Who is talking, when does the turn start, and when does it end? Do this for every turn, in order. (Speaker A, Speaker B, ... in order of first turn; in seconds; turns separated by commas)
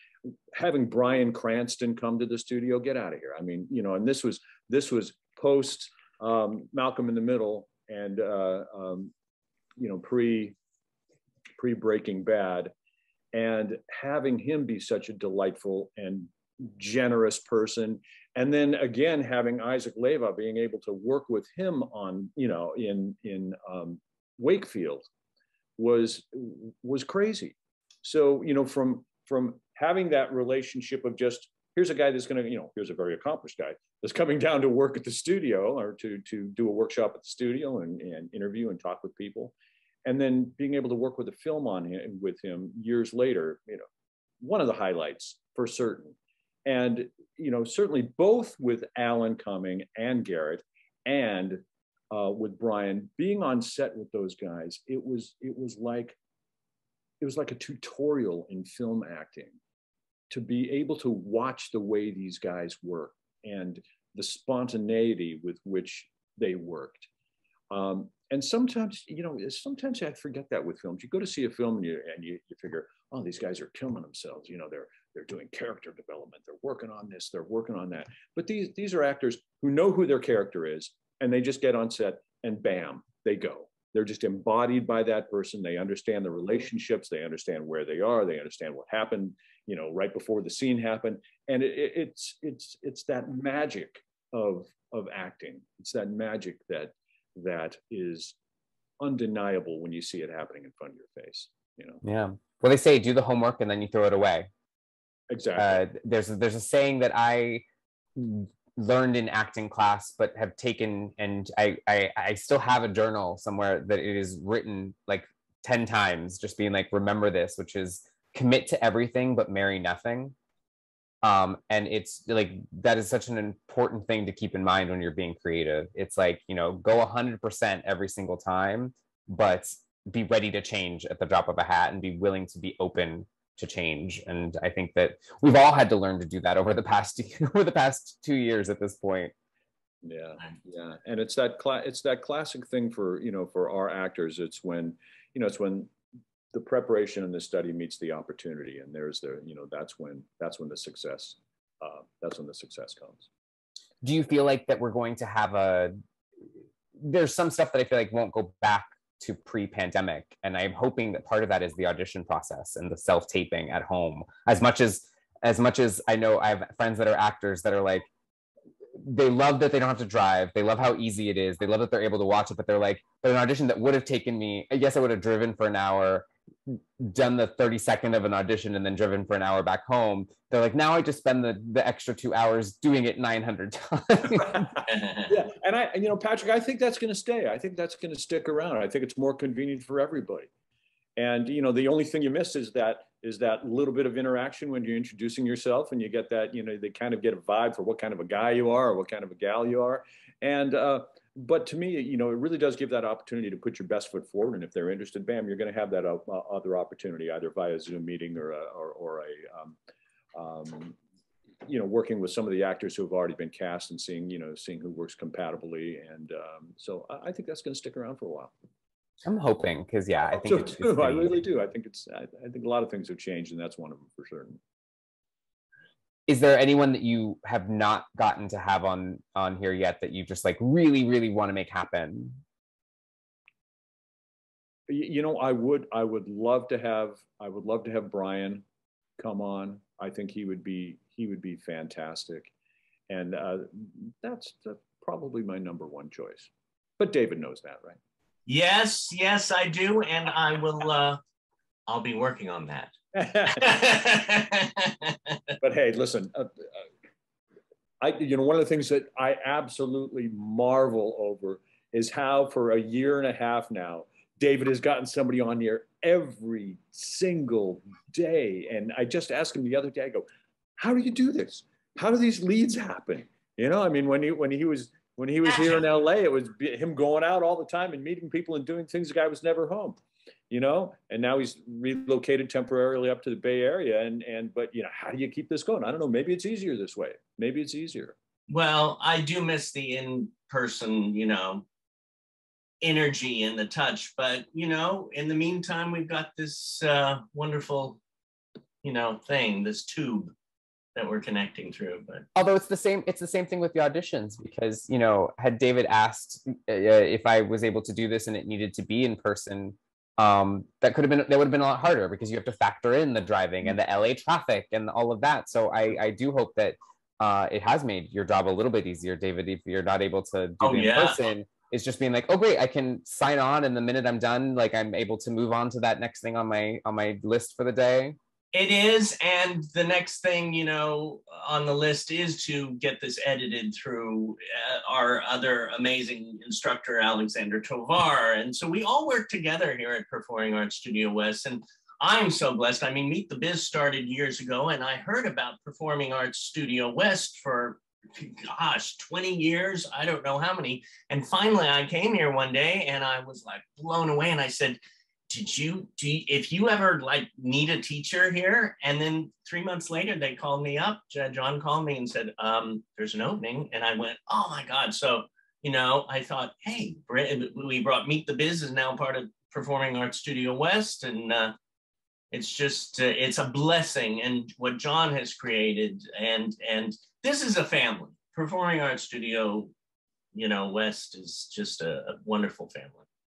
Speaker A: 0.5-9.1, Speaker A: 9.8-10.6, Speaker A: 11.6-12.7, Speaker A: 13.3-25.1, Speaker A: 25.8-39.5, Speaker A: 40.0-43.9, Speaker A: 44.4-56.2, Speaker A: 57.2-59.6, Speaker A: 60.3-67.1, Speaker A: 67.7-98.3, Speaker A: 99.0-102.0, Speaker B: 102.0-104.5, Speaker A: 105.3-105.8, Speaker B: 105.6-120.3, Speaker B: 121.2-139.3, Speaker A: 140.0-145.9, Speaker A: 146.5-153.3, Speaker B: 154.0-156.0, Speaker B: 157.0-168.1, Speaker B: 169.0-184.7, Speaker A: 184.3-190.5, Speaker C: 184.9-185.4, Speaker A: 191.2-209.8, Speaker A: 210.3-211.0, Speaker A: 211.7-218.5, Speaker B: 219.2-221.4, Speaker A: 220.4-224.6, Speaker B: 226.3-232.4, Speaker A: 234.9-238.7, Speaker A: 239.2-242.5, Speaker A: 243.1-248.0, Speaker C: 248.5-251.2, Speaker C: 251.9-252.9, Speaker A: 253.1-253.8, Speaker C: 253.6-255.4, Speaker A: 255.6-256.6, Speaker A: 258.0-270.2, Speaker A: 270.8-280.0, Speaker A: 280.5-288.2, Speaker C: 288.5-291.6, Speaker C: 292.8-298.0, Speaker C: 298.8-300.3, Speaker C: 300.9-302.3, Speaker B: 302.4-328.2, Speaker C: 320.6-321.2, Speaker C: 328.5-371.6, Speaker C: 372.3-379.7, Speaker C: 380.3-383.1